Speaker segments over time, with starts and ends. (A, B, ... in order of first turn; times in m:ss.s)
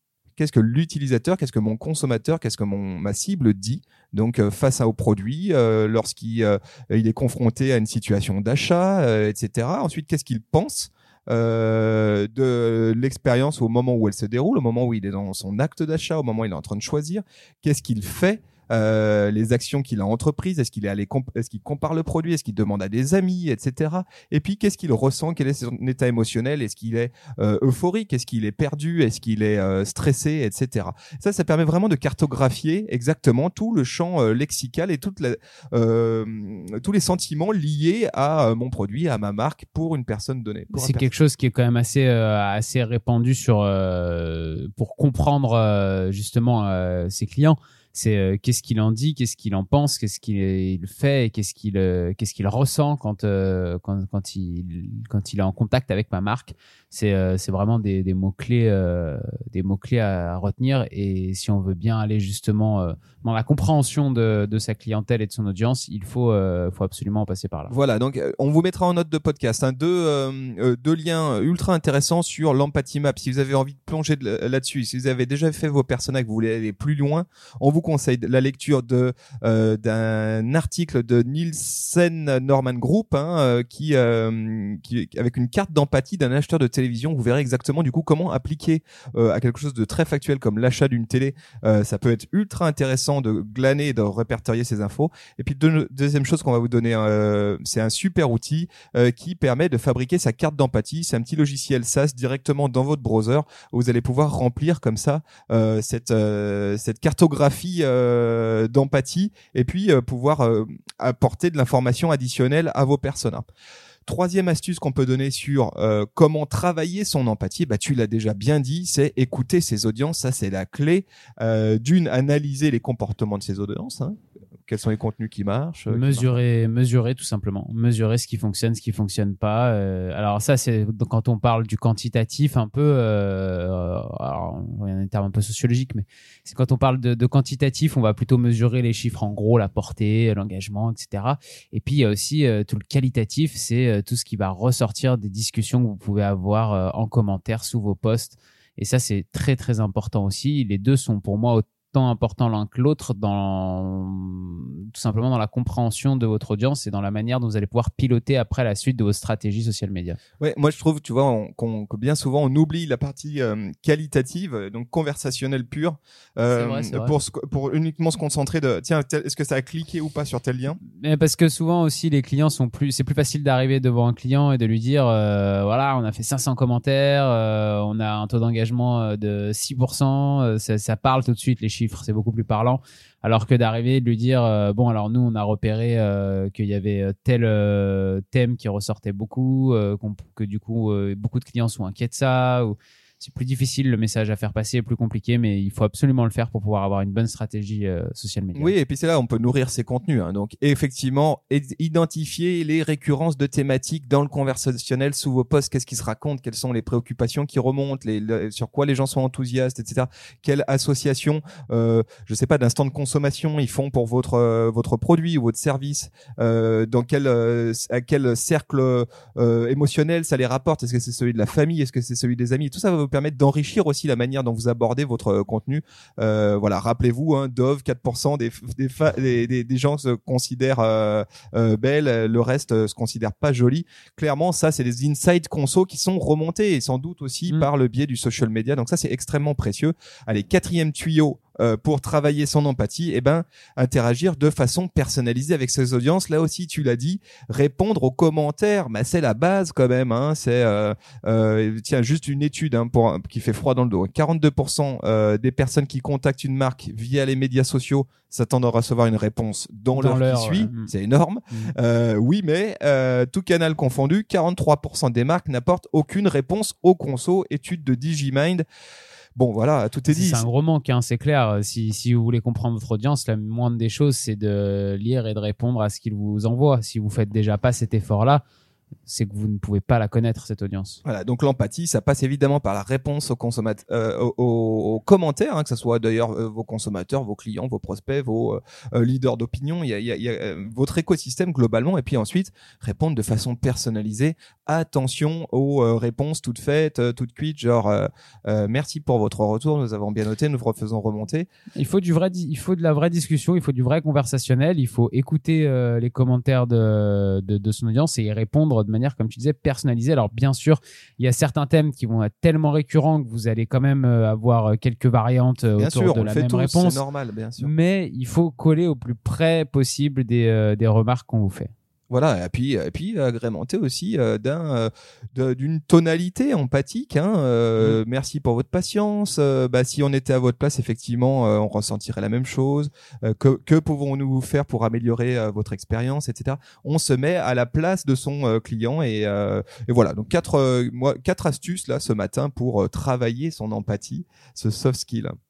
0:00.4-0:41.1 A
0:40.7-1:07.7 B
1:07.7-1:53.4 A
1:54.0-2:06.3 A
2:05.9-2:40.2 B
2:40.4-2:50.8 A
2:46.5-2:47.2 B
2:50.8-3:18.7 B
3:18.5-4:28.6 A
4:19.9-4:20.9 B
4:29.4-4:30.4 A
4:30.1-4:38.4 B
4:39.0-4:41.0 B
4:41.0-5:01.5 A
5:01.8-5:17.0 B
5:15.8-5:17.7 A
5:17.6-5:21.7 B
5:22.1-5:45.3 A